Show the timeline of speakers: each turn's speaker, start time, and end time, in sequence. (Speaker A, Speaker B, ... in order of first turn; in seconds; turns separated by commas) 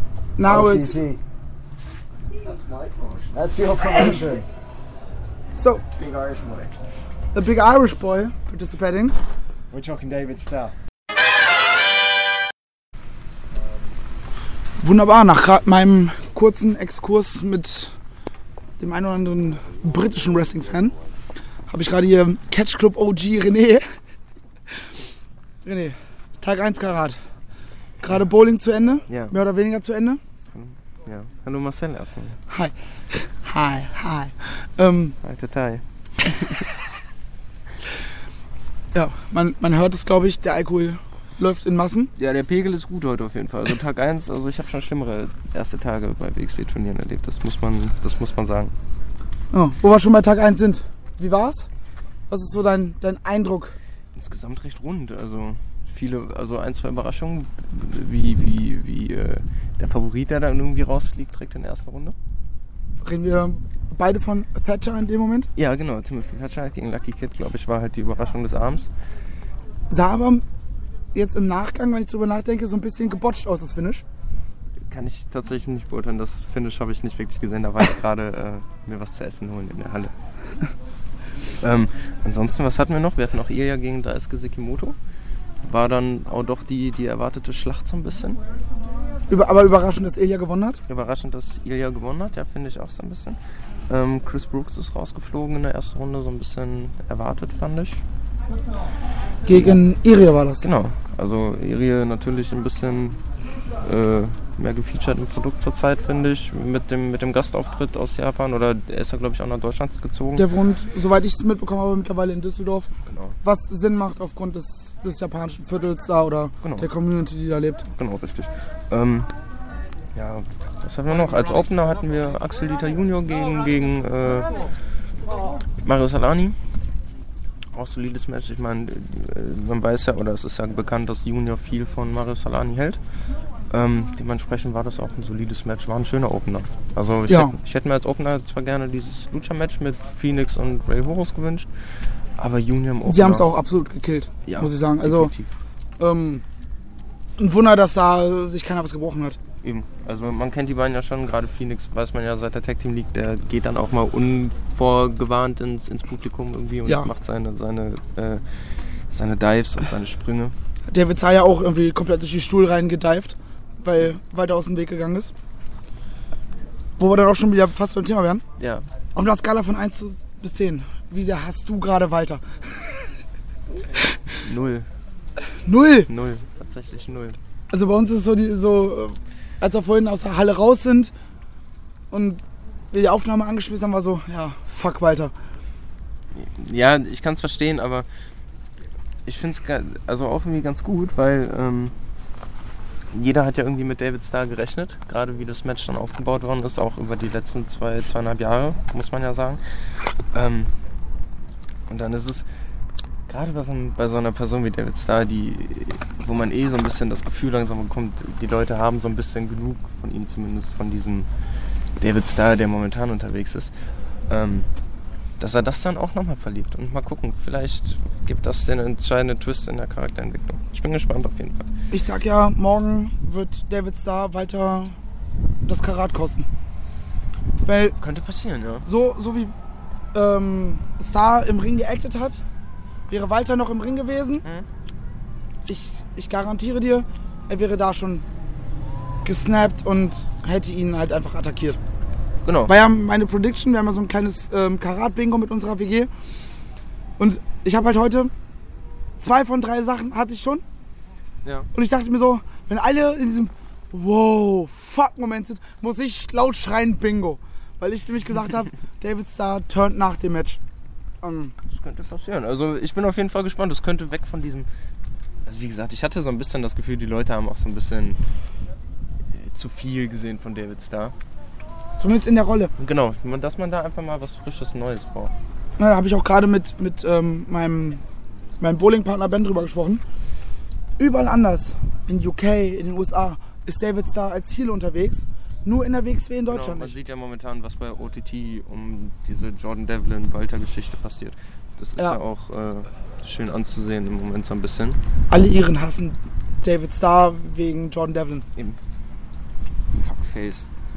Speaker A: 0.4-1.0, Speaker B: 0.4-1.2, Speaker B: 3.3-4.5, Speaker A: 5.5-5.8, Speaker B: 6.2-6.7, Speaker A: 7.3-9.2, Speaker B: 9.7-10.7, Speaker A: 14.8-17.9, Speaker A: 18.8-20.9, Speaker A: 21.7-23.8, Speaker A: 25.6-27.2, Speaker A: 28.0-30.2, Speaker C: 29.1-29.3, Speaker C: 30.5-32.4, Speaker A: 32.5-35.1, Speaker C: 35.2-35.8, Speaker A: 38.9-42.1, Speaker C: 42.2-48.7, Speaker A: 49.5-51.7, Speaker A: 52.3-53.8, Speaker C: 54.1-62.1, Speaker A: 63.0-65.5, Speaker C: 65.5-68.9, Speaker A: 69.9-70.4, Speaker A: 71.1-74.0, Speaker C: 74.9-80.1, Speaker C: 81.6-85.0, Speaker C: 85.6-88.4, Speaker A: 89.3-90.8, Speaker C: 90.9-93.4, Speaker C: 93.9-98.0, Speaker A: 99.5-100.7, Speaker C: 100.6-103.2, Speaker C: 103.8-110.5, Speaker A: 110.3-112.9, Speaker C: 113.1-113.3, Speaker A: 113.4-117.9, Speaker C: 116.6-116.9, Speaker C: 118.0-119.3, Speaker C: 120.1-124.6, Speaker C: 125.8-126.6, Speaker C: 127.7-133.0, Speaker C: 133.7-141.7, Speaker A: 137.3-137.5, Speaker C: 142.3-143.5, Speaker A: 143.1-145.3, Speaker C: 144.4-145.5, Speaker A: 146.0-146.4, Speaker A: 147.4-149.4, Speaker C: 149.6-160.5, Speaker A: 160.9-165.3, Speaker A: 167.0-168.4, Speaker C: 168.6-168.8, Speaker A: 169.2-173.0, Speaker C: 174.4-174.9, Speaker A: 175.7-176.1, Speaker C: 176.1-177.4, Speaker A: 177.7-181.1, Speaker A: 182.1-182.4, Speaker A: 182.9-185.3, Speaker C: 186.3-188.1, Speaker C: 189.2-191.9, Speaker C: 193.1-199.6, Speaker C: 200.3-200.7, Speaker C: 201.9-202.4, Speaker C: 203.3-211.3, Speaker C: 212.0-213.8, Speaker C: 214.3-214.7, Speaker C: 215.4-221.7, Speaker A: 221.9-224.9, Speaker A: 225.6-226.4, Speaker A: 227.6-227.9, Speaker C: 228.0-228.8, Speaker A: 228.8-229.5, Speaker A: 230.1-232.4, Speaker A: 233.1-234.4, Speaker A: 235.7-238.2, Speaker A: 239.2-241.8, Speaker C: 242.4-242.7, Speaker A: 242.7-246.1, Speaker A: 247.2-248.3, Speaker A: 249.2-250.6, Speaker A: 251.7-260.6, Speaker A: 261.2-261.5, Speaker C: 261.7-264.7, Speaker C: 265.4-268.2, Speaker C: 269.3-271.1, Speaker A: 272.0-272.7, Speaker C: 272.8-275.3, Speaker A: 275.8-278.0, Speaker A: 278.6-280.0, Speaker A: 281.0-286.9, Speaker C: 286.5-295.0, Speaker A: 295.3-298.4, Speaker C: 299.9-300.7